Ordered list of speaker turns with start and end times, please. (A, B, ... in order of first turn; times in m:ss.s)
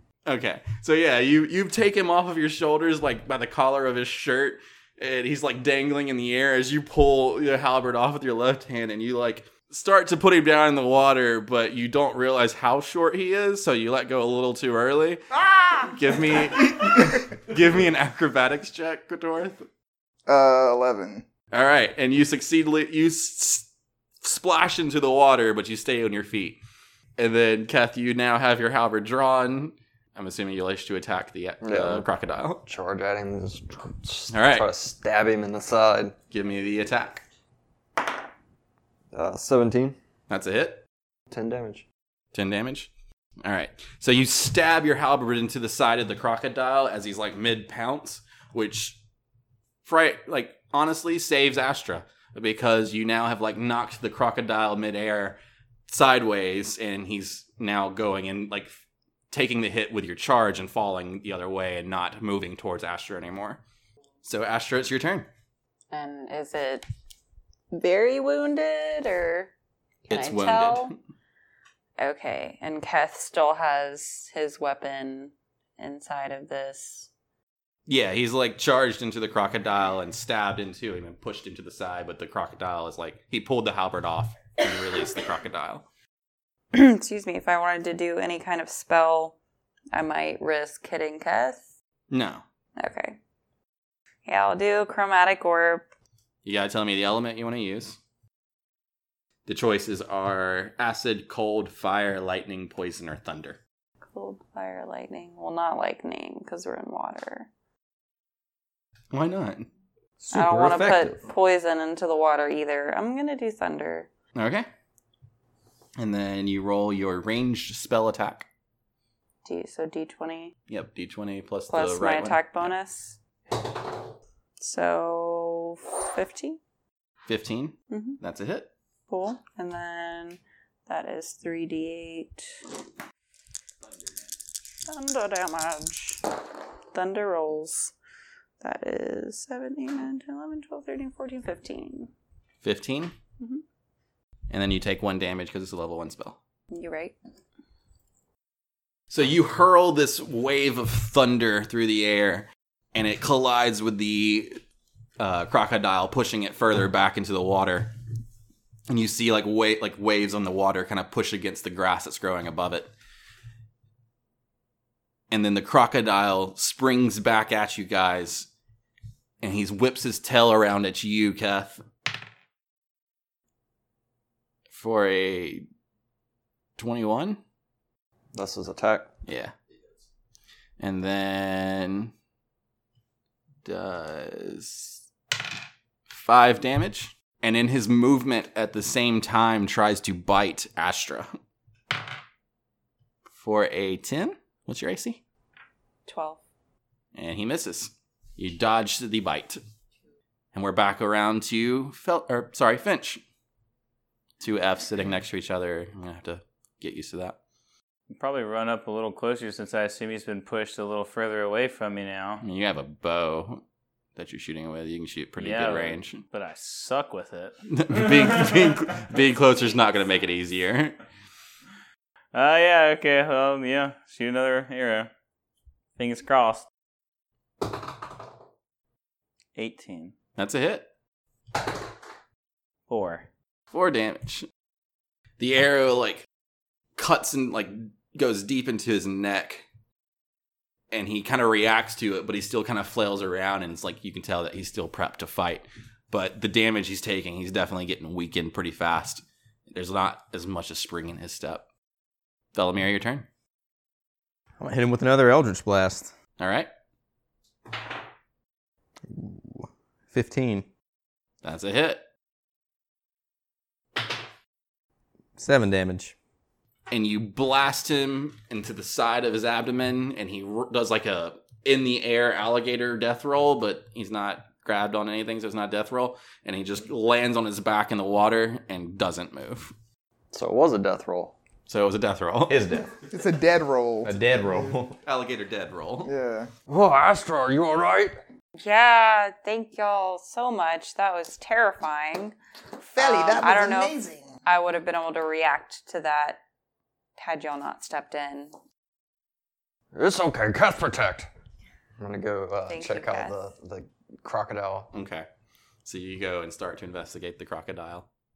0:00.2-0:19.6 A
0:20.3-0:21.2 B
0:21.5-0:23.7 A
0:24.2-0:26.6 A
0:27.2-0:32.6 A
0:31.6-0:32.1 C
0:32.6-0:36.1 C
0:34.3-0:34.7 A
0:36.3-0:37.2 A
0:39.1-0:40.0 C
0:40.3-0:40.8 A
0:41.3-0:41.8 C
0:42.3-0:42.9 A
0:43.4-0:49.0 A
0:49.8-0:58.7 A
0:59.3-1:03.6 A
1:04.2-1:05.3 A
1:05.9-1:06.8 D
1:07.7-1:09.5 D
1:10.1-1:10.9 D
1:10.1-1:11.0 A
1:12.0-1:17.1 D
1:17.9-1:25.9 A
1:26.7-1:29.4 D
1:29.9-1:31.7 D
1:32.1-1:32.4 A
1:32.8-1:33.2 D
1:34.2-1:35.8 D
1:36.4-1:38.0 A
1:39.5-1:43.6 A
1:44.1-1:47.5 D
1:49.1-1:49.7 A
1:50.2-1:51.2 E
1:50.3-1:54.1 D
1:54.3-1:54.7 A
1:56.0-1:58.5 A
1:59.4-2:00.5 D
2:00.7-2:02.7 A
2:01.7-2:03.2 D
2:04.6-2:06.6 D
2:07.2-2:08.7 A
2:07.9-2:08.2 D
2:09.1-2:12.5 D
2:14.8-2:16.2 D
2:16.9-2:17.9 D
2:18.6-2:22.1 D
2:22.6-2:23.1 A
2:24.5-2:26.4 A
2:26.7-2:27.2 D
2:29.1-2:34.6 A
2:35.2-2:37.9 A
2:38.9-2:42.9 A
2:45.3-2:48.5 A
2:49.4-2:51.8 A
2:54.7-2:55.6 A
2:56.8-2:57.4 A
2:58.3-2:59.1 C
2:59.2-2:59.5 A
3:00.8-3:02.1 A
3:03.6-3:05.0 A
3:06.1-3:11.3 A
3:13.3-3:15.2 A
3:16.1-3:16.4 D
3:17.1-3:19.6 A
3:20.5-3:23.2 A
3:24.4-3:27.4 A
3:28.1-3:32.4 F
3:32.4-3:33.6 A
3:34.2-3:36.2 A
3:35.4-3:37.6 F
3:37.7-3:41.0 A
3:42.3-3:45.1 F
3:46.0-3:46.7 F
3:49.6-3:50.1 F
3:50.4-3:50.9 A
3:52.9-3:53.2 F
3:53.7-3:54.5 A
3:55.4-3:56.3 A
3:57.0-3:59.6 A
4:00.9-4:11.6 A
4:12.5-4:13.2 A
4:14.6-4:16.1 E
4:16.4-4:16.7 A
4:19.1-4:20.6 E
4:21.4-4:22.0 A
4:25.4-4:26.2 E
4:26.9-4:39.7 A
4:40.3-4:41.3 C
4:41.6-4:42.6 A
4:42.5-4:42.9 E
4:43.1-4:44.2 B
4:44.0-4:45.0 E
4:45.0-4:46.1 A
4:46.0-4:46.5 B
4:46.7-4:48.2 C
4:48.6-4:52.4 D
4:52.8-4:54.3 B
4:53.0-4:53.9 D
4:54.4-4:56.4 D
4:57.2-4:58.5 D
4:59.9-5:01.3 C
5:02.0-5:04.9 C
5:02.7-5:03.3 D
5:04.9-5:05.3 A
5:05.8-5:08.1 A